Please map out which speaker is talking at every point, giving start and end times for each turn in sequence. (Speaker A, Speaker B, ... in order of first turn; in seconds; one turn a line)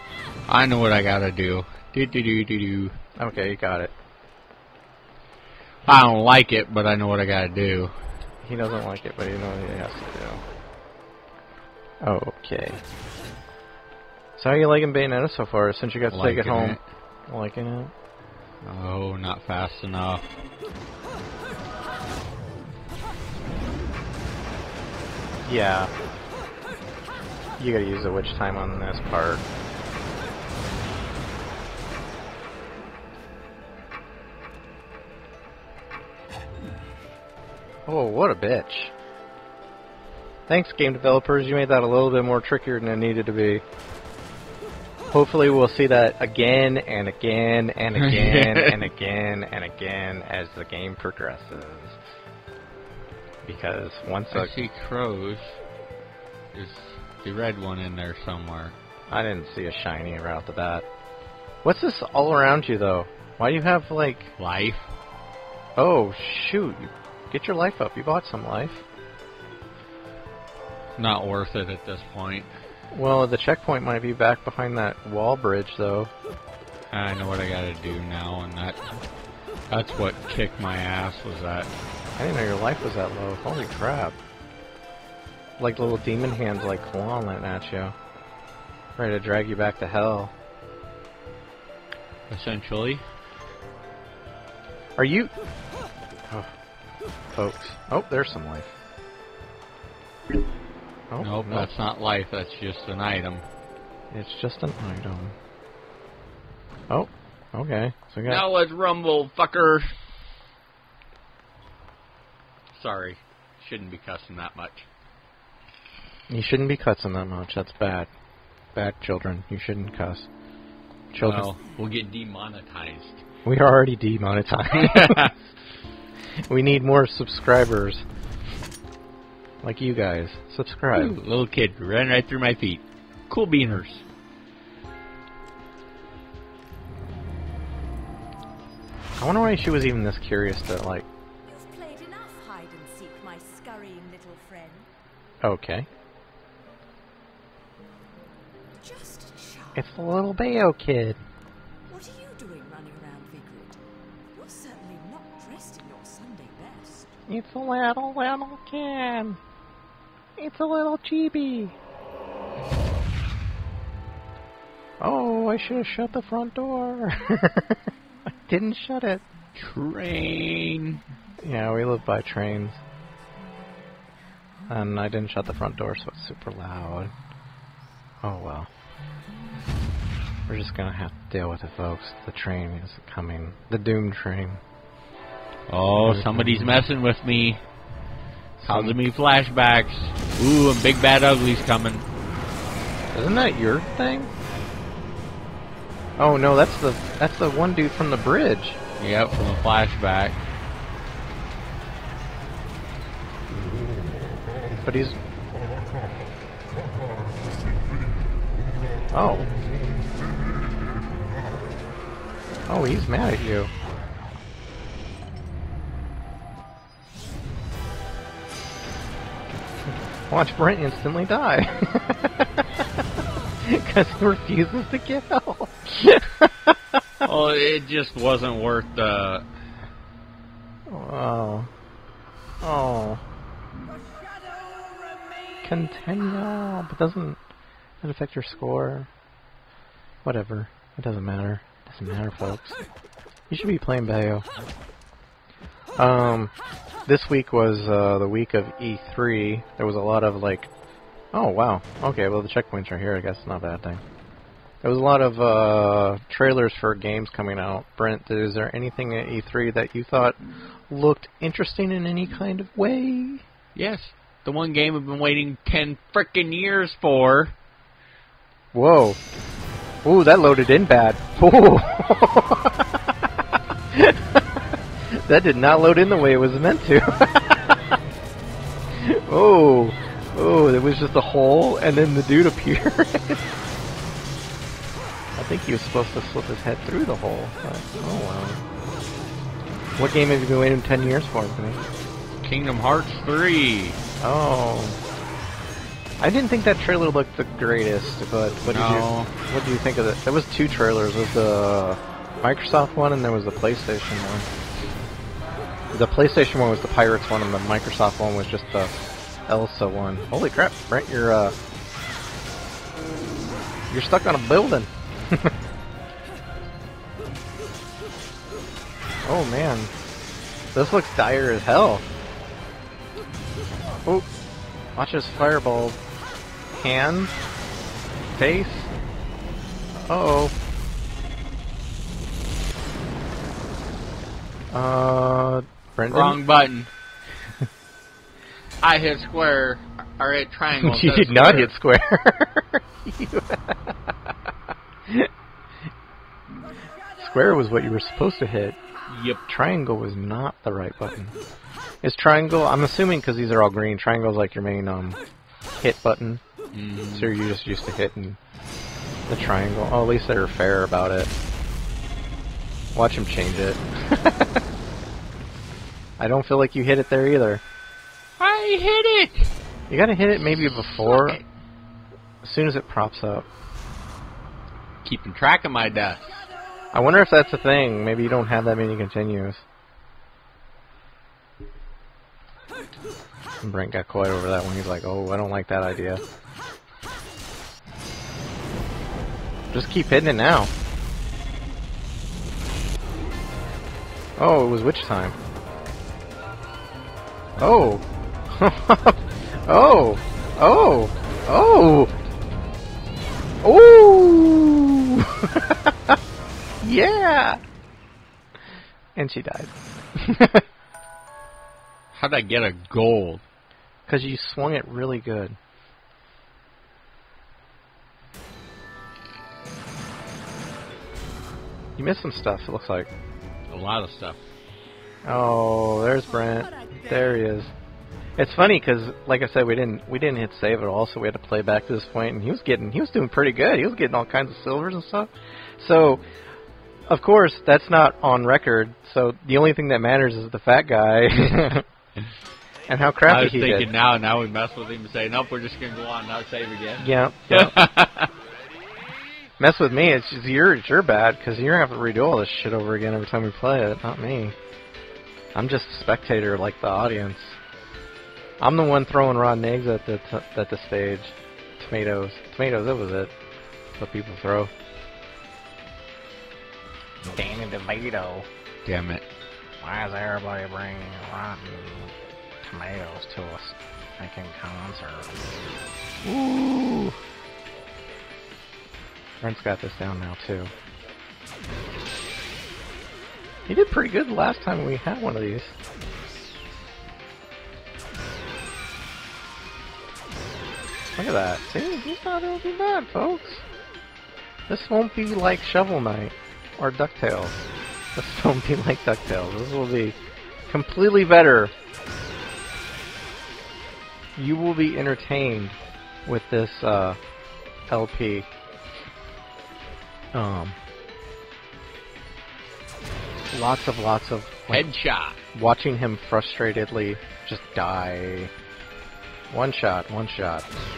Speaker A: 0.5-3.0
Speaker B: 3.2-3.9
Speaker A: 5.8-7.9
Speaker B: 8.4-10.4
Speaker B: 12.0-12.8
Speaker B: 14.4-17.9
Speaker A: 16.1-16.8
Speaker A: 18.6-20.3
Speaker B: 25.4-25.9
Speaker B: 27.6-29.4
Speaker B: 37.9-38.9
Speaker B: 40.5-43.6
Speaker B: 45.1-52.0
Speaker A: 47.9-48.8
Speaker B: 53.4-54.5
Speaker A: 54.3-55.6
Speaker A: 56.5-58.8
Speaker B: 59.1-60.8
Speaker B: 61.6-64.3
Speaker A: 64.4-64.9
Speaker B: 65.8-68.8
Speaker A: 71.0-72.5
Speaker B: 72.9-76.1
Speaker A: 76.9-78.8
Speaker A: 79.7-81.7
Speaker B: 82.2-84.2
Speaker B: 85.6-87.9
Speaker B: 89.0-90.3
Speaker A: 92.3-93.0
Speaker B: 95.0-95.3
Speaker B: 97.3-98.7
Speaker B: 101.1-101.7
Speaker A: 101.2-103.4
Speaker B: 104.1-105.3
Speaker B: 106.9-108.4
Speaker A: 108.2-109.9
Speaker A: 112.7-114.9
Speaker B: 116.3-118.1
Speaker B: 118.7-120.3
Speaker B: 121.1-121.5
Speaker A: 121.2-123.2
Speaker B: 123.4-125.3
Speaker A: 124.7-125.3
Speaker B: 126.5-128.0
Speaker B: 129.6-131.2
Speaker A: 130.9-134.0
Speaker B: 139.2-141.1
Speaker C: 141.4-144.9
Speaker B: 145.4-145.9
Speaker C: 148.8-149.8
Speaker B: 149.8-151.2
Speaker C: 151.9-153.8
Speaker C: 154.3-157.2
Speaker B: 157.3-159.4
Speaker B: 160.4-161.8
Speaker B: 165.0-167.8
Speaker B: 168.5-169.2
Speaker A: 169.5-171.0
Speaker B: 171.4-172.8
Speaker B: 174.7-177.1
Speaker B: 178.2-178.7
Speaker B: 180.5-184.6
Speaker A: 185.7-187.6
Speaker B: 186.0-186.8
Speaker B: 188.6-189.0
Speaker A: 188.6-192.1
Speaker B: 193.1-194.3
Speaker B: 196.2-198.8
Speaker A: 199.0-200.4
Speaker B: 204.8-205.1
Speaker B: 209.1-209.5
Speaker B: 212.7-213.7
Speaker B: 220.3-222.5
Speaker B: 223.6-227.0
Speaker A: 227.2-229.4
Speaker B: 230.9-231.7
Speaker B: 232.6-233.2
Speaker B: 235.6-237.4
Speaker B: 238.0-239.1
Speaker B: 240.2-242.8
Speaker B: 243.5-244.4
Speaker B: 246.0-246.5
Speaker B: 247.1-250.7
Speaker B: 251.3-254.0
Speaker B: 254.8-260.4
Speaker B: 260.9-263.4
Speaker A: 263.7-267.5
Speaker B: 268.7-269.2
Speaker B: 270.0-272.9
Speaker B: 273.9-274.4
Speaker B: 275.1-278.0
Speaker B: 279.0-283.4
Speaker B: 285.4-288.6
Speaker B: 290.0-291.8
Speaker A: 292.4-294.0
Speaker B: 294.2-295.0
Speaker B: 296.2-304.5
Speaker A: 298.7-299.3
Speaker B: 305.9-308.9
Speaker B: 309.5-311.5
Speaker B: 313.9-315.5
Speaker B: 319.2-319.9
Speaker B: 320.7-322.0
Speaker B: 324.9-326.0
Speaker B: 326.7-327.3
Speaker B: 328.4-328.9
Speaker B: 330.1-330.5
Speaker B: 334.7-336.4
Speaker A: 336.1-336.9
Speaker A: 338.8-341.7
Speaker B: 340.7-344.1
Speaker B: 347.2-348.8
Speaker A: 349.1-349.4
Speaker B: 349.5-351.3
Speaker B: 352.0-355.2
Speaker B: 355.8-356.4
Speaker A: 356.7-357.3
Speaker B: 357.1-358.4
Speaker B: 359.3-361.3
Speaker B: 362.9-364.6
Speaker B: 366.2-367.6
Speaker A: 368.4-369.5
Speaker B: 369.9-371.4
Speaker A: 370.7-371.4
Speaker B: 372.4-373.4
Speaker A: 375.0-376.5
Speaker B: 376.9-379.6
Speaker B: 383.6-386.2
Speaker B: 389.7-390.7
Speaker B: 394.4-395.4
Speaker B: 397.6-402.1
Speaker B: 403.6-406.2
Speaker B: 406.8-407.6
Speaker B: 409.1-410.6
Speaker A: 412.1-413.4
Speaker B: 414.1-415.6
Speaker B: 422.0-423.1
Speaker A: 423.7-424.4
Speaker B: 425.2-427.7
Speaker C: 426.4-427.2
Speaker B: 428.4-436.2
Speaker B: 437.1-441.8
Speaker B: 442.9-443.9
Speaker A: 443.3-448.3
Speaker B: 447.0-447.8
Speaker B: 449.6-454.6
Speaker B: 455.5-457.6
Speaker B: 458.6-463.3
Speaker B: 464.0-464.7
Speaker B: 467.2-468.5
Speaker A: 468.8-469.2
Speaker B: 469.8-475.3
Speaker B: 476.2-477.1
Speaker B: 479.4-480.7
Speaker B: 483.7-485.7
Speaker B: 491.2-493.6
Speaker B: 494.7-497.6
Speaker B: 498.1-500.2
Speaker B: 500.7-501.7
Speaker B: 504.4-507.2
Speaker B: 507.9-508.5
Speaker B: 510.3-510.8
Speaker B: 513.5-514.9
Speaker A: 514.7-515.4
Speaker B: 515.5-518.5
Speaker B: 519.5-520.8